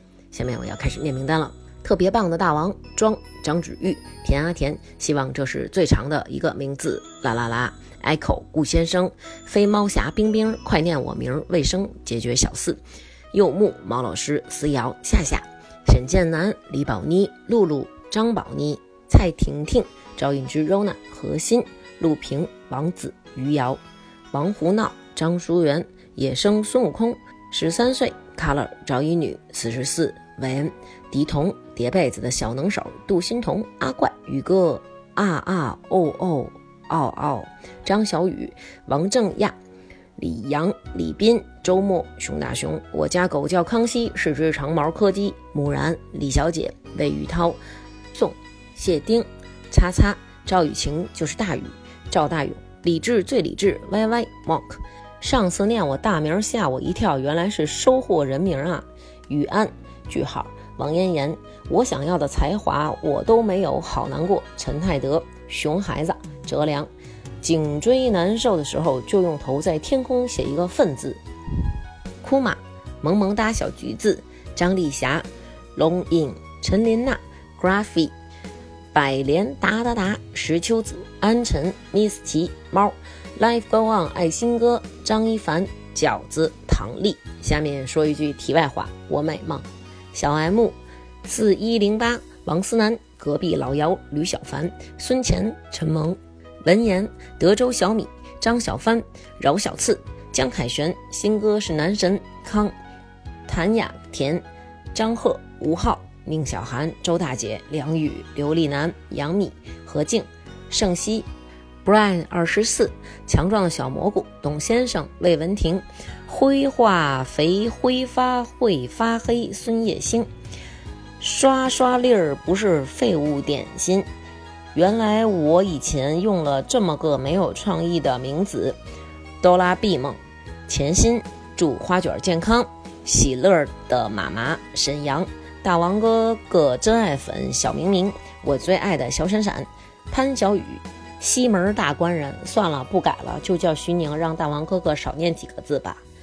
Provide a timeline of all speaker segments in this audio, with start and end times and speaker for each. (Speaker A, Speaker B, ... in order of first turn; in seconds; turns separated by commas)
Speaker A: 0.3-23.8, Speaker A: 24.3-39.6, Speaker A: 40.2-47.6, Speaker A: 48.1-66.9, Speaker A: 67.4-71.2, Speaker A: 72.2-78.1, Speaker A: 78.9-102.7, Speaker A: 103.5-111.3, Speaker A: 111.8-120.3, Speaker A: 121.2-124.1, Speaker A: 124.7-128.8, Speaker A: 129.4-146.0